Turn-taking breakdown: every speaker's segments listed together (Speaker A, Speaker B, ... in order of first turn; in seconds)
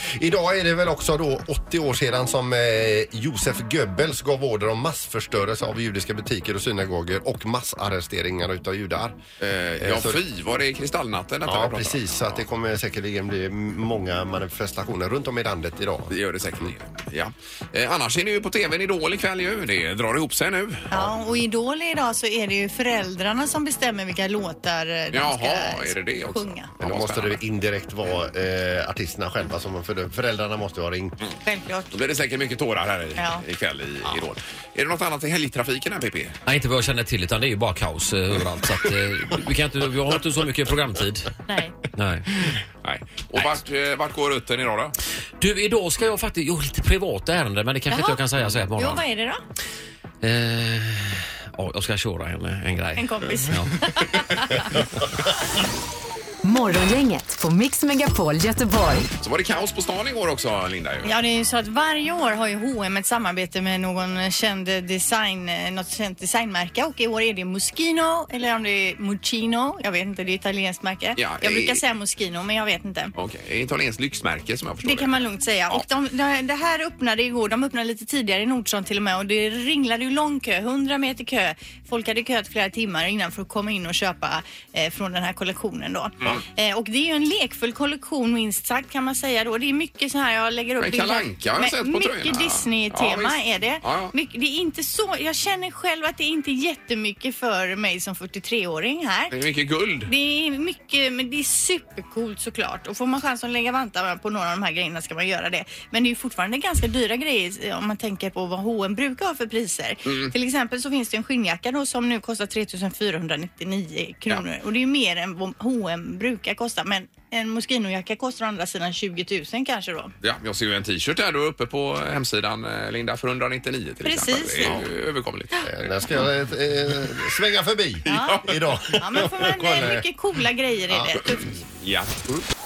Speaker A: 0.1-9.2, 9.8-10.2, 11.4-16.7, 26.8-31.1, 125.6-130.0, 130.9-131.1
Speaker B: 9.4-12.4, 16.1-20.9, 25.1-27.4, 31.9-36.4, 42.8-44.9, 59.2-61.1, 71.2-71.8, 73.2-75.8, 90.8-94.1, 99.3-100.1, 110.0-110.3, 120.2-125.5, 128.0-128.7, 131.3-132.2
Speaker C: 20.9-26.7, 31.4-31.9, 33.2-33.4, 41.5-41.7, 47.9-48.2, 48.7-49.4, 53.0-54.7, 61.0-73.1, 74.8-99.3, 100.1-120.1, 124.0-124.8, 128.1-128.4, 128.9-131.5
Speaker D: 36.5-41.3, 41.9-42.2, 45.4-49.0, 50.2-53.9
Speaker E: 56.4-59.1